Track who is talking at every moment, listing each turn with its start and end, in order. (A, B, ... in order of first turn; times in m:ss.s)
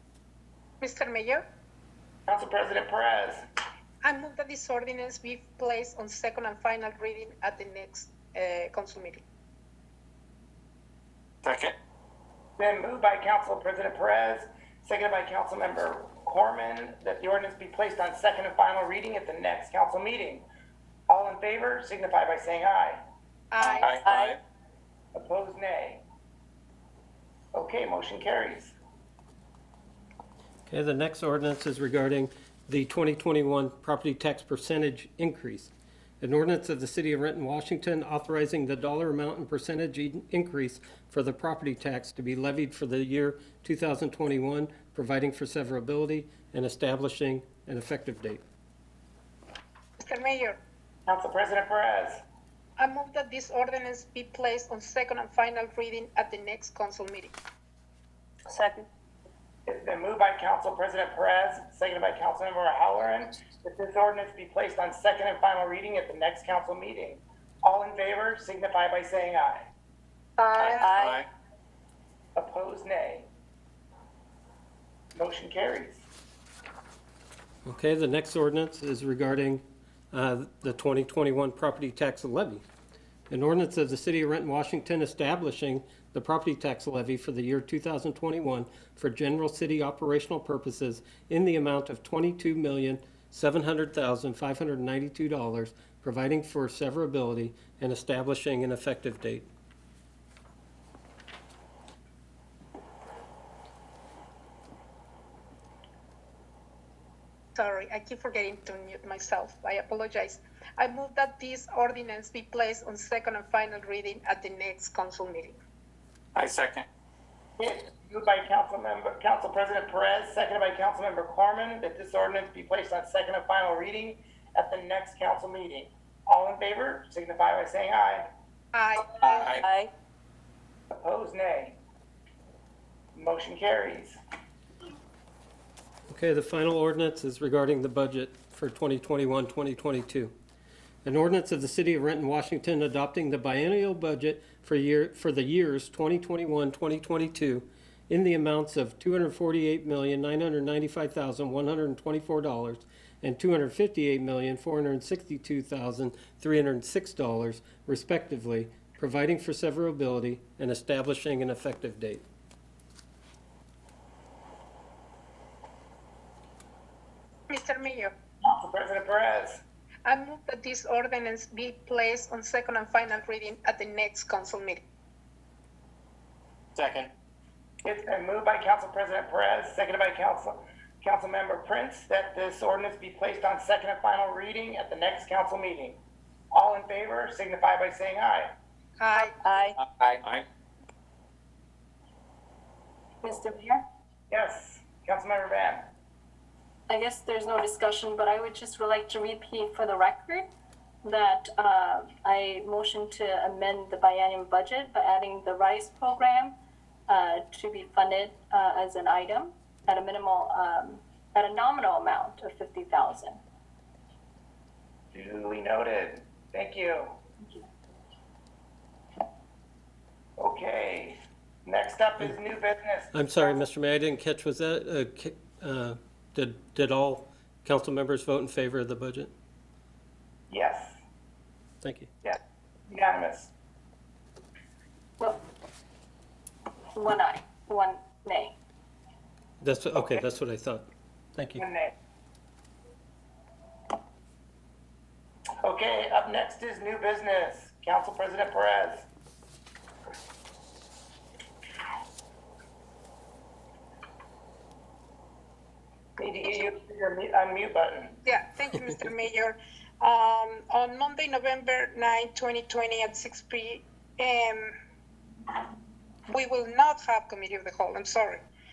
0:00.8-0:01.4 A
0:02.3-0:03.4 B
0:04.0-0:09.2 A
0:11.4-0:11.7 C
0:12.6-0:20.4 B
0:21.1-0:23.0 B
0:23.5-0:24.0 A
0:23.6-0:24.4 C
0:24.0-0:24.3 D
0:25.1-0:26.0 B
0:27.5-0:28.8 B
0:30.7-0:48.4 E
0:50.0-0:50.6 A
0:51.1-0:52.2 B
0:52.8-0:57.3 A
0:58.5-0:58.8 D
0:59.6-1:09.6 B
1:10.4-1:10.9 A
1:10.6-1:11.3 C
1:10.8-1:11.2 D
1:12.4-1:13.3 B
1:15.1-1:16.0 B
1:17.6-1:22.6 E
1:23.3-1:39.5 E
1:47.6-1:55.6 A
1:56.3-1:56.8 C
1:57.6-2:08.3 B
2:08.7-2:09.6 A
2:09.3-2:09.6 C
2:09.6-2:09.9 D
2:10.9-2:11.8 B
2:13.1-2:14.2 B
2:16.1-2:20.3 E
2:21.0-2:42.2 E
2:47.5-2:48.1 A
2:48.4-2:49.6 B
2:50.0-2:54.8 A
2:56.7-2:57.1 C
2:57.8-3:06.0 B
3:06.5-3:08.6 B
3:09.0-3:09.3 A
3:09.4-3:10.2 D
3:09.8-3:10.4 C
3:13.2-3:13.8 F
3:14.3-3:15.8 B
3:16.9-3:20.5 F
3:21.0-3:26.6 F
3:27.1-3:33.4 F
3:35.1-3:37.1 B
3:40.4-3:43.6 B
3:43.1-3:49.3 E
3:50.5-3:51.0 B
3:51.8-3:52.1 E
3:52.2-3:53.5 B
3:56.9-3:58.6 F
3:59.6-4:01.6 E
4:01.6-4:01.9 B
4:05.6-4:09.1 B
4:16.2-4:18.2 B
4:18.2-4:24.7 A
4:26.3-4:28.4 A